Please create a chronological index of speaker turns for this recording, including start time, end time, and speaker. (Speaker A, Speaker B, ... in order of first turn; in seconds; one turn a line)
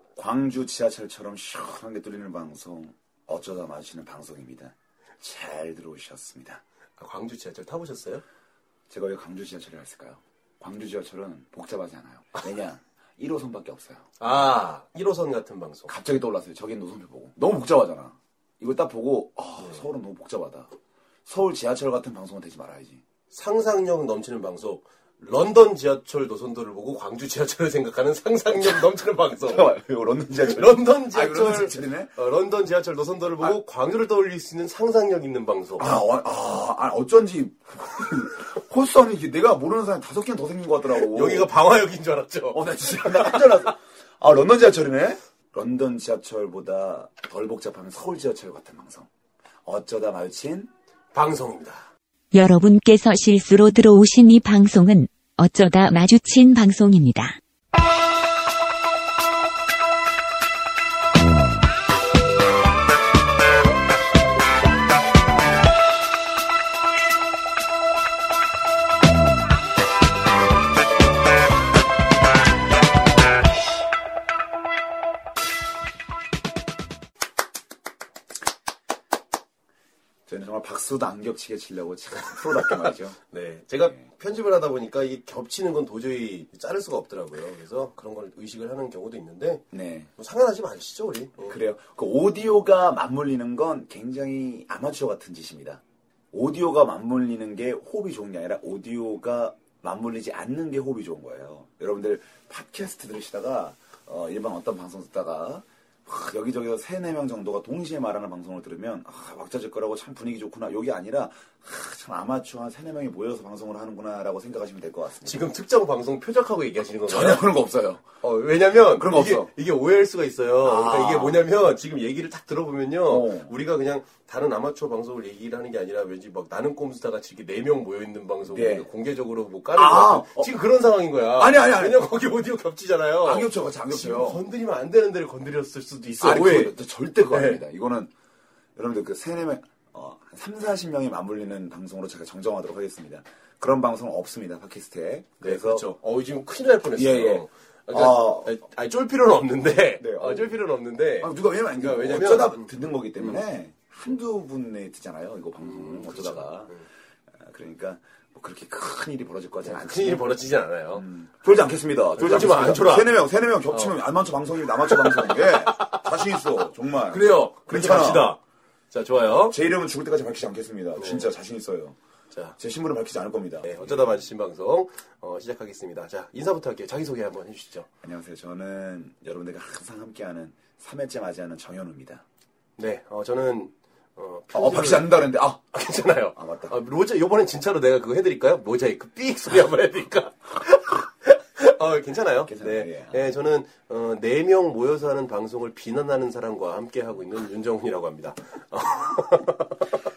Speaker A: 0.1-6.6
Speaker B: 7.0-8.2
Speaker A: 8.9-14.1
Speaker B: 14.2-15.9
Speaker A: 15.9-20.7
Speaker A: 21.2-23.0
Speaker B: 23.3-29.8
Speaker A: 29.4-32.1
Speaker B: 30.4-35.9
Speaker A: 35.8-41.5
Speaker B: 40.9-43.6
Speaker A: 42.5-49.1
Speaker A: 49.6-50.7
Speaker B: 51.1-51.9
Speaker C: 52.3-57.4
Speaker A: 80.3-83.2
Speaker B: 82.5-89.6
Speaker A: 89.7-90.1
Speaker B: 90.2-91.6
Speaker A: 91.4-95.8
Speaker A: 96.3-115.4
Speaker B: 115.2-117.5
Speaker A: 117.1-118.1
Speaker B: 118.2-136.8
Speaker A: 119.0-119.5
Speaker A: 120.6-121.4
Speaker A: 123.1-123.5
Speaker A: 128.5-128.9
Speaker A: 129.7-130.5
Speaker A: 131.3-132.1
Speaker A: 133.2-134.4
Speaker A: 136.2-138.1
Speaker B: 137.3-137.6
Speaker A: 138.8-145.9
Speaker B: 145.4-153.4
Speaker A: 146.9-148.6
Speaker A: 150.0-150.6
Speaker A: 151.2-156.8
Speaker B: 155.6-156.8
Speaker A: 157.4-160.3
Speaker B: 159.6-161.1
Speaker A: 160.9-168.3
Speaker B: 162.2-163.9
Speaker B: 164.8-166.5
Speaker B: 167.1-168.4
Speaker B: 168.9-169.6
Speaker A: 169.5-172.0
Speaker B: 171.0-171.3
Speaker A: 172.6-174.2
Speaker B: 173.6-177.9
Speaker A: 178.0-182.2
Speaker B: 182.8-199.8
Speaker A: 184.5-185.6
Speaker A: 186.3-186.7
Speaker A: 192.5-193.3